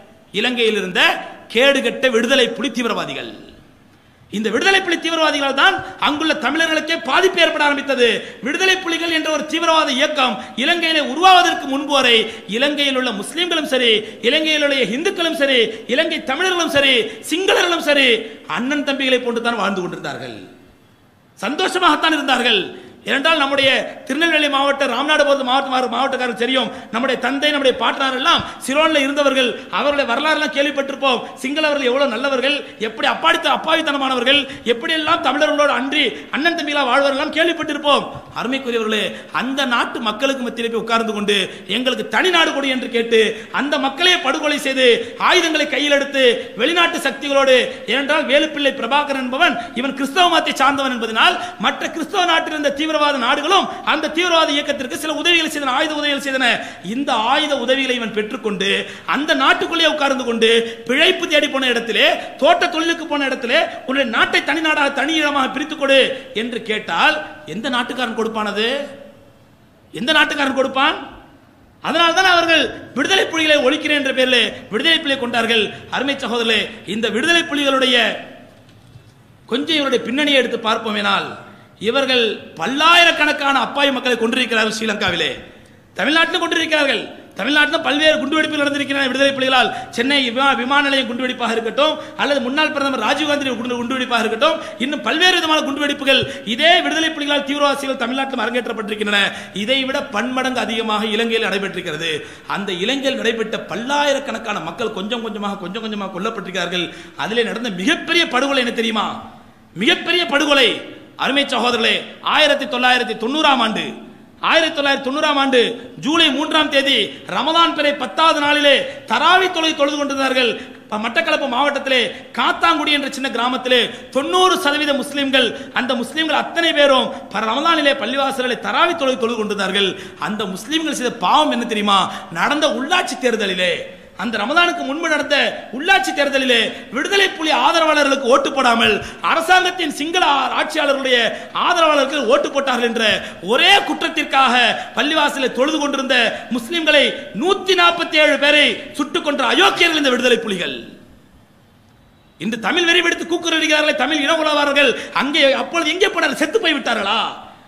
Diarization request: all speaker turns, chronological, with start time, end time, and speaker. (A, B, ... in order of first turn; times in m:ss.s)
0:00.3-0:03.3 A
0:04.3-0:20.4 A
0:21.4-1:08.7 A
1:10.0-1:11.0 A
1:11.8-1:18.0 A
1:19.5-1:21.3 A
1:21.8-1:25.3 A
1:26.0-1:49.1 A
1:49.8-1:53.9 A
1:54.5-2:30.8 A
2:32.4-2:37.3 A